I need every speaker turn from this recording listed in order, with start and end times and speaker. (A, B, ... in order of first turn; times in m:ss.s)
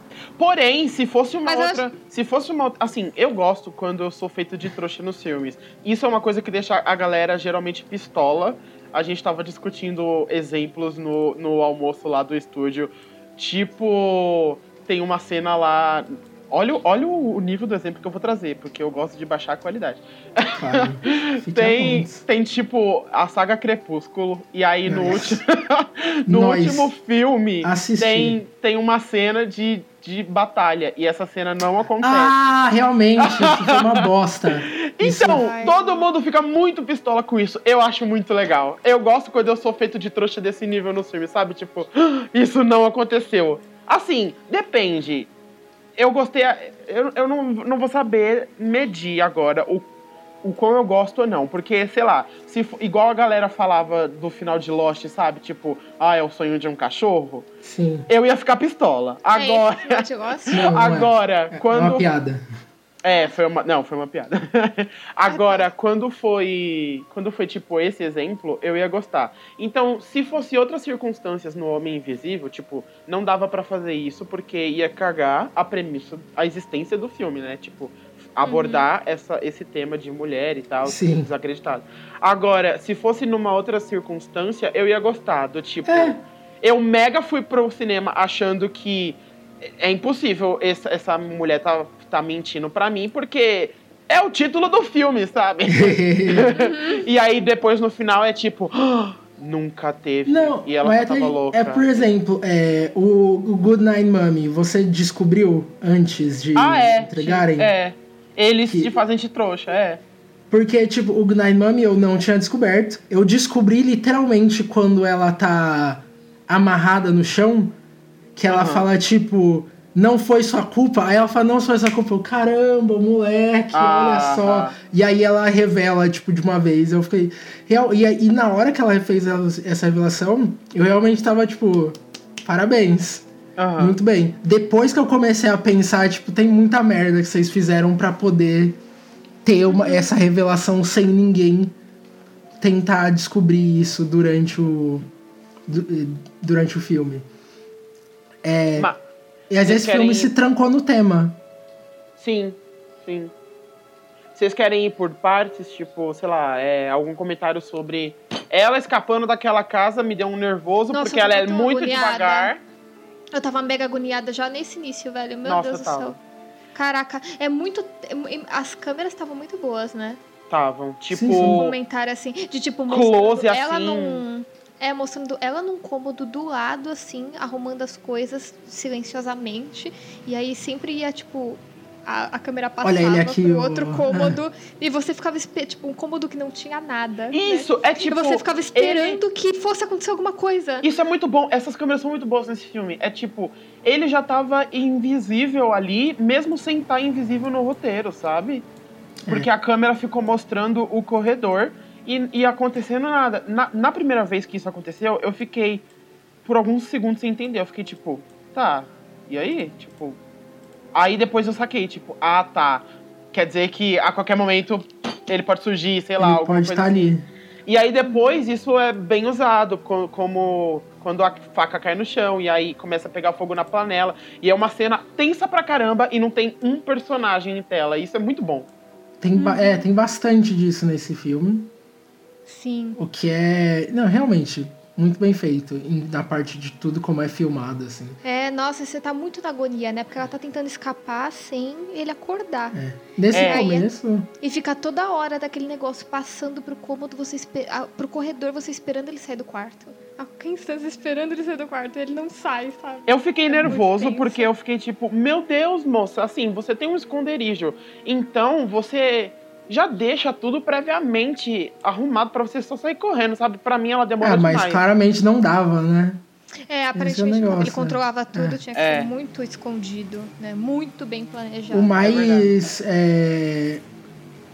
0:00.4-0:32.4 A
0:01.4-0:01.8 B
0:20.5-0:22.2 C
0:24.9-0:25.4 C
0:26.2-0:26.9 C
0:27.6-0:28.4 C
0:32.0-0:35.4 C
0:33.2-0:34.1 A
0:34.6-0:45.3 A
0:35.3-0:36.0 B
0:46.0-0:49.9 A
0:50.4-0:57.5 A
0:57.6-0:58.1 C
0:58.1-1:02.1 A
0:59.3-1:00.7 B
1:00.5-1:02.4 C
1:03.0-1:42.1 A
1:05.3-1:05.7 B
1:18.4-1:18.9 B
1:20.8-1:21.3 C
1:25.8-1:26.2 C
1:35.7-1:36.6 C
1:36.6-1:37.0 B
1:40.2-1:47.7 C
1:46.6-1:50.0 A
1:48.7-1:48.9 C
1:50.5-1:57.8 C
1:58.4-2:13.2 C
1:58.5-1:58.8 A
2:03.7-2:04.7 A
2:13.6-2:14.0 A
2:13.8-2:18.8 C
2:19.4-2:21.7 C
2:19.7-2:20.1 B
2:22.6-2:25.0 C
2:25.7-2:27.2 C
2:28.4-2:28.9 C
2:29.5-2:31.4 C
2:29.6-2:30.3 A
2:32.2-2:33.3 A
2:34.3-2:42.6 A
2:40.9-2:42.5 B
2:43.3-2:46.2 B
2:45.4-2:46.2 A
2:46.7-2:50.2 B
2:50.5-2:51.8 A
2:51.1-2:51.7 C
2:51.3-3:10.9 B
2:52.9-2:54.2 A
3:02.8-3:04.4 C
3:07.3-3:09.2 A
3:10.8-3:18.6 A
3:19.3-3:25.8 A
3:26.4-3:30.2 A
3:30.9-3:37.1 A
3:36.2-3:37.2 C
3:37.7-3:48.7 A
3:38.0-3:38.4 B
3:49.2-3:51.7 C
3:49.4-3:49.9 B
3:52.5-3:53.0 B
3:53.0-3:58.2 C
3:58.2-4:02.8 B
4:02.7-4:04.3 C
4:03.3-4:03.6 A
4:03.4-4:03.9 B
4:04.4-4:14.5 B
4:13.1-4:24.8 A
4:24.2-4:26.2 C
4:26.7-4:32.1 B
4:26.9-4:28.6 C
4:28.7-4:29.1 A
4:31.7-4:33.8 C
4:32.0-4:32.5 A